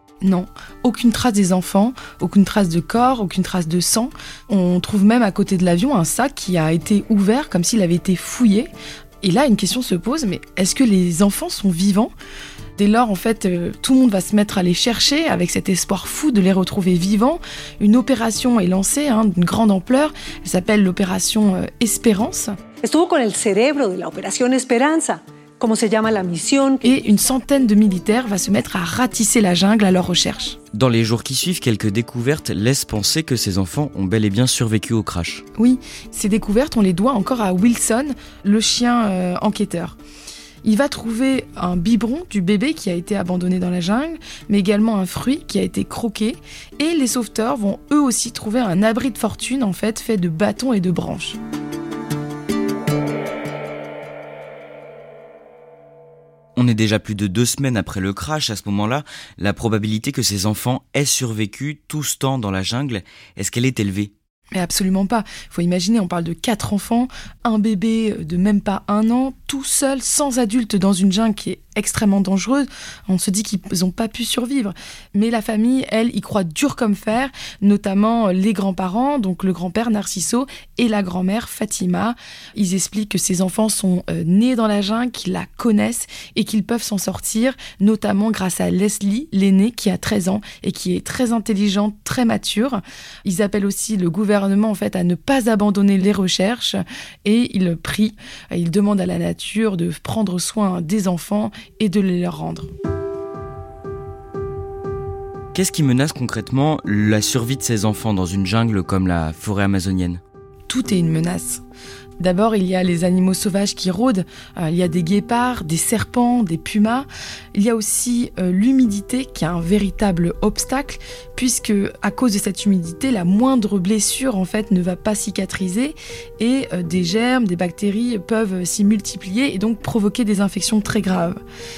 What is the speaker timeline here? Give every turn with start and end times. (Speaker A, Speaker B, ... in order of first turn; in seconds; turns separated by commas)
Speaker A: 0.2-8.7, Speaker A: 9.2-12.1, Speaker A: 12.8-22.6, Speaker B: 22.8-26.9, Speaker A: 26.8-30.6, Speaker C: 30.7-35.5, Speaker A: 35.6-40.0, Speaker A: 40.6-51.4, Speaker C: 56.6-64.1, Speaker A: 64.5-102.7, Speaker C: 105.5-110.2, Speaker A: 110.7-111.6, Speaker A: 112.2-131.4